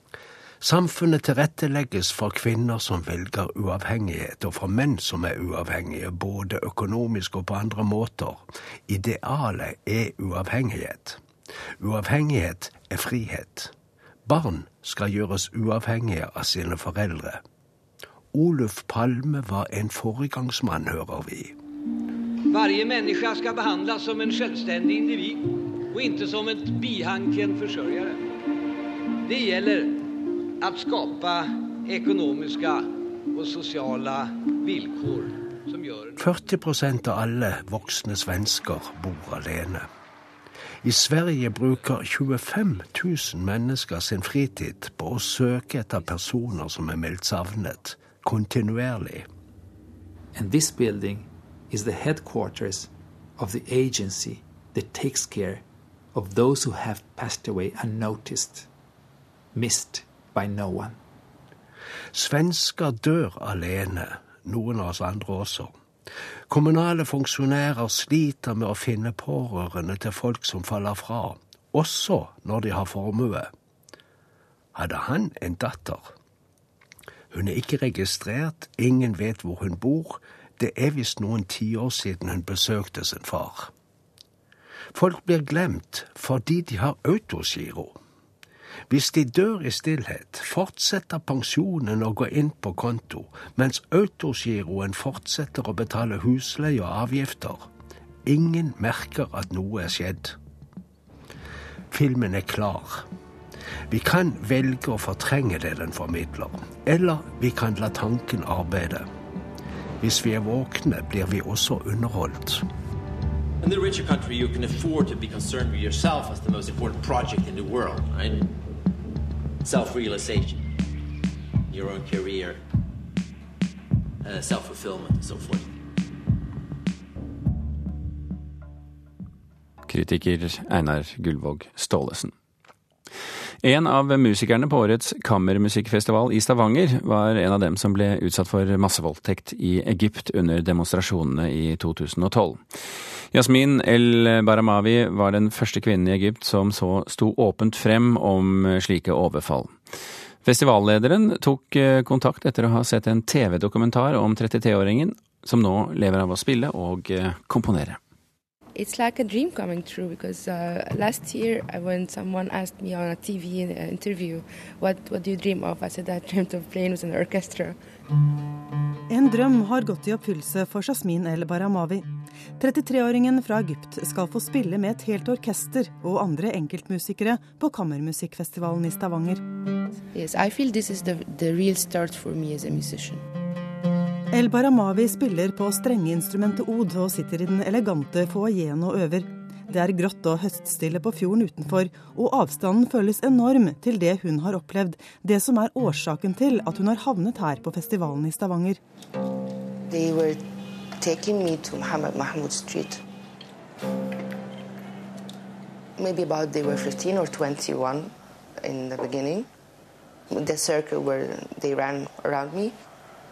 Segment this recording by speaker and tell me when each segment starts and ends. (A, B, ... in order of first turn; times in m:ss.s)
0:00.6-0:11.2 A
0:11.8-0:13.7 A
0:14.2-0:17.4 A
0:18.3-0:21.6 A
0:22.5-0:28.2 B
0:29.2-0:30.0 B
0:30.6-0:36.2 B
0:36.2-0:39.9 A
0:40.8-0:49.2 A
0:50.4-0:55.6 C
0:56.1-0:58.7 C
0:59.6-1:01.0 C
1:02.1-1:05.7 A
1:06.5-1:13.5 A
1:14.8-1:16.1 A
1:17.3-1:23.7 A
1:24.9-1:28.0 A
1:28.9-1:37.7 A
1:38.2-1:40.4 A
1:41.9-1:43.1 A
1:43.9-1:49.1 A
1:50.0-1:52.6 A
1:53.6-1:58.5 D
1:59.6-2:00.7 D
2:01.7-2:02.6 D
2:04.2-2:05.7 D
2:09.9-2:12.3 E
2:13.6-2:22.6 E
2:23.3-2:29.7 E
2:30.4-2:38.0 E
2:38.8-2:47.8 F
2:49.1-2:52.1 G
2:52.6-2:59.4 G
3:00.1-3:03.2 F
3:04.3-3:18.8 G
3:19.9-3:20.5 F
3:21.0-3:23.0 F
3:26.0-3:29.5 F
3:30.3-3:32.8 F